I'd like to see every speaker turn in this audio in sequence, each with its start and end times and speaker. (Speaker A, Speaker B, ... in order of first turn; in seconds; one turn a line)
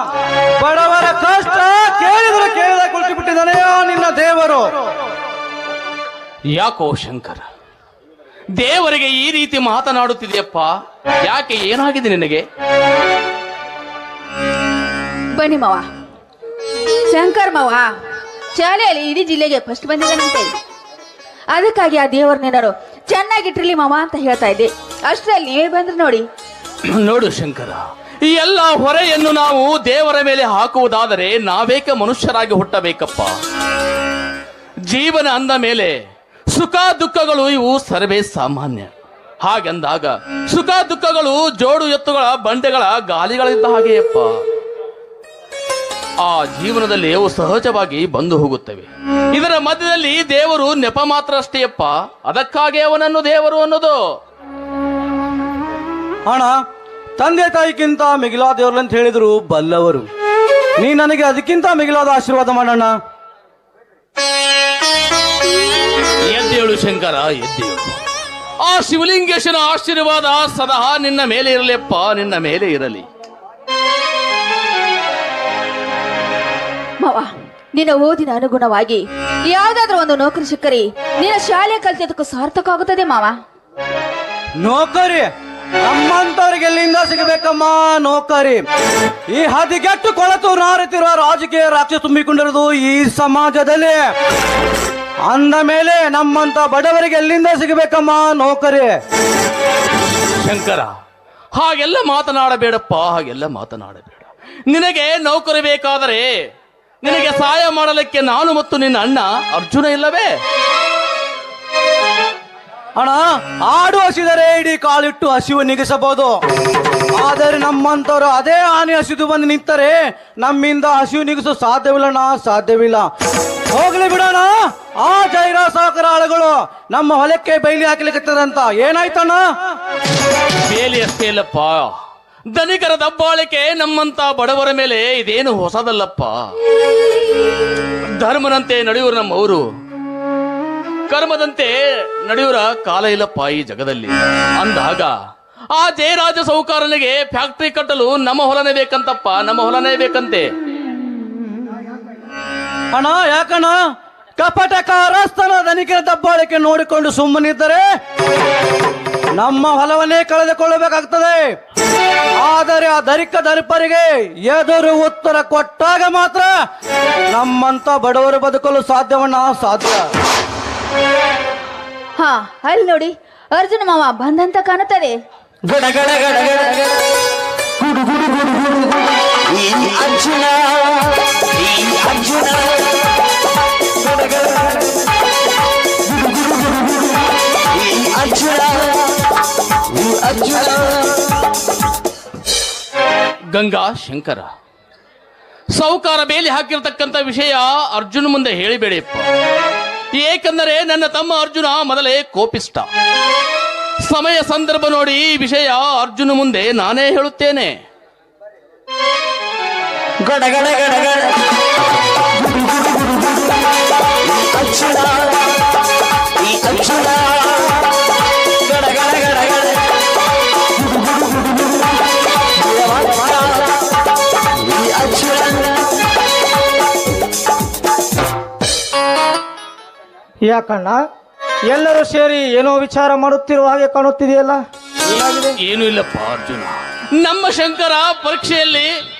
Speaker A: 0.6-4.7
Speaker B: 6.5-7.4
Speaker B: 8.6-12.4
Speaker C: 15.3-15.8
Speaker C: 17.1-17.9
Speaker C: 18.5-20.5
Speaker C: 21.5-26.2
Speaker B: 26.9-33.3
Speaker B: 34.9-35.9
Speaker B: 36.5-38.9
Speaker B: 39.4-44.3
Speaker B: 46.2-54.0
Speaker A: 56.3-56.6
Speaker A: 57.2-60.1
Speaker A: 60.8-62.9
Speaker B: 66.3-67.9
Speaker B: 68.6-73.0
Speaker C: 77.0-83.3
Speaker A: 84.6-85.3
Speaker A: 85.8-88.6
Speaker A: 89.3-94.1
Speaker A: 95.2-99.0
Speaker B: 100.4-100.9
Speaker B: 101.5-106.3
Speaker B: 107.0-110.3
Speaker A: 113.0-116.4
Speaker A: 117.2-123.1
Speaker A: 123.7-129.4
Speaker B: 130.7-131.9
Speaker B: 132.5-136.4
Speaker B: 138.2-139.6
Speaker B: 141.1-145.2
Speaker B: 145.7-150.5
Speaker A: 152.9-153.7
Speaker A: 154.4-157.8
Speaker A: 159.4-161.5
Speaker A: 162.4-166.5
Speaker A: 167.3-170.1
Speaker C: 172.2-175.2
Speaker D: 175.6-177.0
Speaker D: 177.8-178.9
Speaker D: 179.5-183.0
Speaker D: 184.0-185.1
Speaker D: 186.1-186.9
Speaker D: 187.7-189.2
Speaker D: 189.9-191.2
Speaker B: 193.5-194.5
Speaker B: 195.7-199.3
Speaker B: 200.2-202.9
Speaker B: 204.1-207.8
Speaker D: 210.2-211.3
Speaker D: 212.4-213.4
Speaker D: 214.2-215.4
Speaker D: 216.4-217.8
Speaker D: 218.6-219.8
Speaker D: 220.8-221.7
Speaker D: 222.6-223.7
Speaker D: 224.6-225.9
Speaker E: 230.4-231.0
Speaker E: 231.7-235.6
Speaker B: 235.6-238.9